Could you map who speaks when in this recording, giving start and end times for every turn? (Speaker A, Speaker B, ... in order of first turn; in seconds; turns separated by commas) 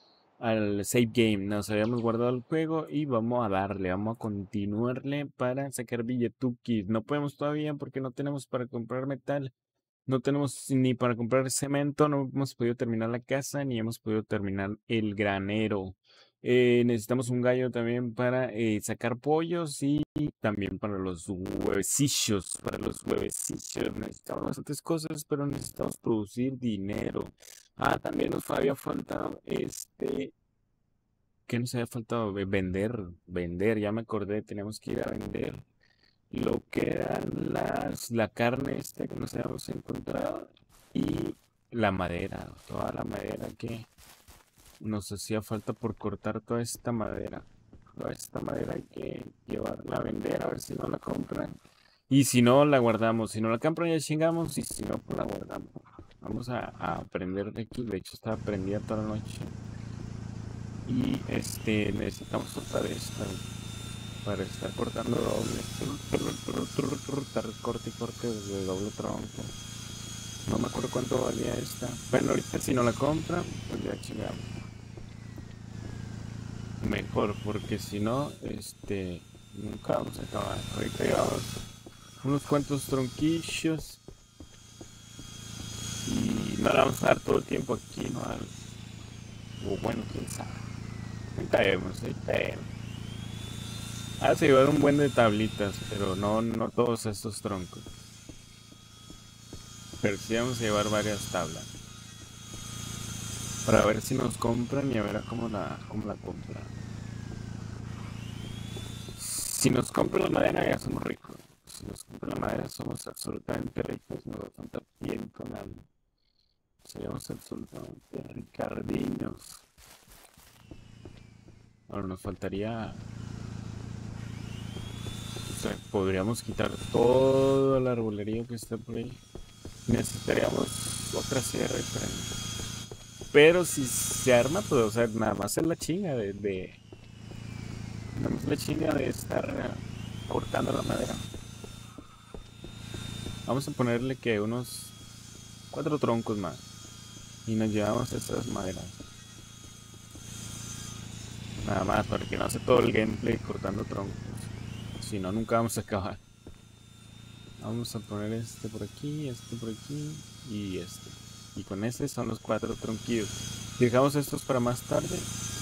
Speaker A: 0.4-9.5, Speaker A: 10.1-30.3, Speaker A: 31.5-35.6, Speaker A: 36.3-43.9, Speaker A: 44.8-51.6, Speaker A: 52.1-59.5, Speaker A: 60.9-63.4, Speaker A: 64.2-69.5, Speaker A: 70.5-74.5, Speaker A: 76.8-81.6, Speaker A: 82.2-84.0, Speaker A: 86.0-88.5, Speaker A: 89.6-90.6, Speaker A: 91.3-92.7, Speaker A: 94.2-97.9, Speaker A: 100.0-101.7, Speaker A: 103.7-106.7, Speaker A: 109.2-115.8, Speaker A: 116.8-119.6, Speaker A: 121.9-123.0, Speaker A: 125.4-129.2, Speaker A: 129.8-132.3, Speaker A: 133.3-136.8, Speaker A: 138.1-141.2, Speaker A: 143.4-144.9, Speaker A: 145.7-146.6, Speaker A: 147.4-149.0, Speaker A: 151.6-156.2, Speaker A: 157.6-165.3